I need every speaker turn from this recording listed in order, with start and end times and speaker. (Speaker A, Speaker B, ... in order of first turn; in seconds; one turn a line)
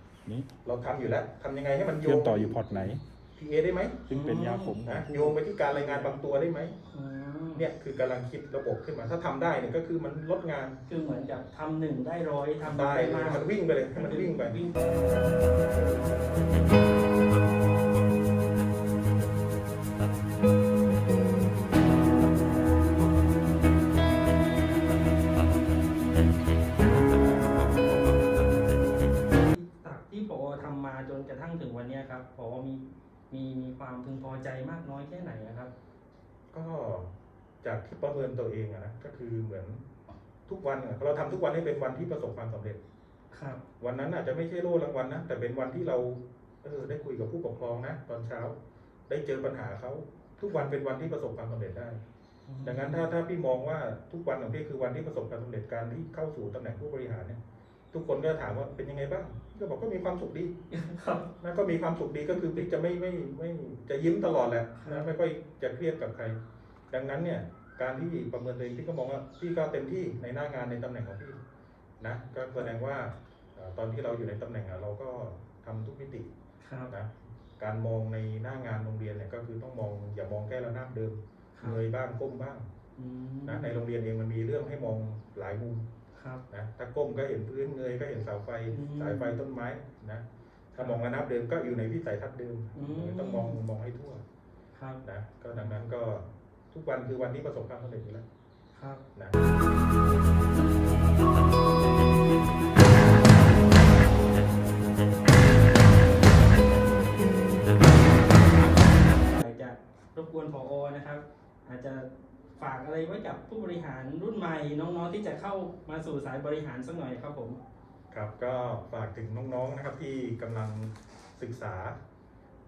Speaker A: 0.2-0.5
Speaker B: 0.6-4.1
Speaker A: 2.0-3.0
Speaker A: 4.1-5.3
Speaker C: 4.1-4.8
Speaker B: 4.8-6.8
Speaker C: 5.7-6.1
Speaker C: 6.9-7.6
Speaker B: 7.5-10.8
Speaker C: 10.9-14.8
Speaker B: 12.6-14.6
Speaker C: 29.4-35.7
Speaker B: 36.5-37.1
Speaker B: 37.6-39.8
Speaker B: 40.5-42.8
Speaker C: 43.3-43.6
Speaker B: 43.8-48.5
Speaker B: 49.1-52.0
Speaker C: 52.5-53.1
Speaker B: 52.6-57.4
Speaker B: 57.9-60.5
Speaker C: 60.7-61.3
Speaker B: 61.4-66.4
Speaker C: 64.8-65.1
Speaker B: 66.9-71.4
Speaker B: 72.0-76.3
Speaker C: 76.6-76.9
Speaker B: 76.9-82.6
Speaker C: 83.0-83.8
Speaker B: 83.4-85.8
Speaker C: 86.1-86.4
Speaker B: 86.5-90.2
Speaker C: 88.7-89.4
Speaker C: 90.7-91.0
Speaker B: 90.8-94.2
Speaker C: 92.7-93.6
Speaker C: 94.7-95.8
Speaker B: 95.0-98.2
Speaker C: 98.7-99.0
Speaker C: 109.3-117.6
Speaker B: 118.1-122.0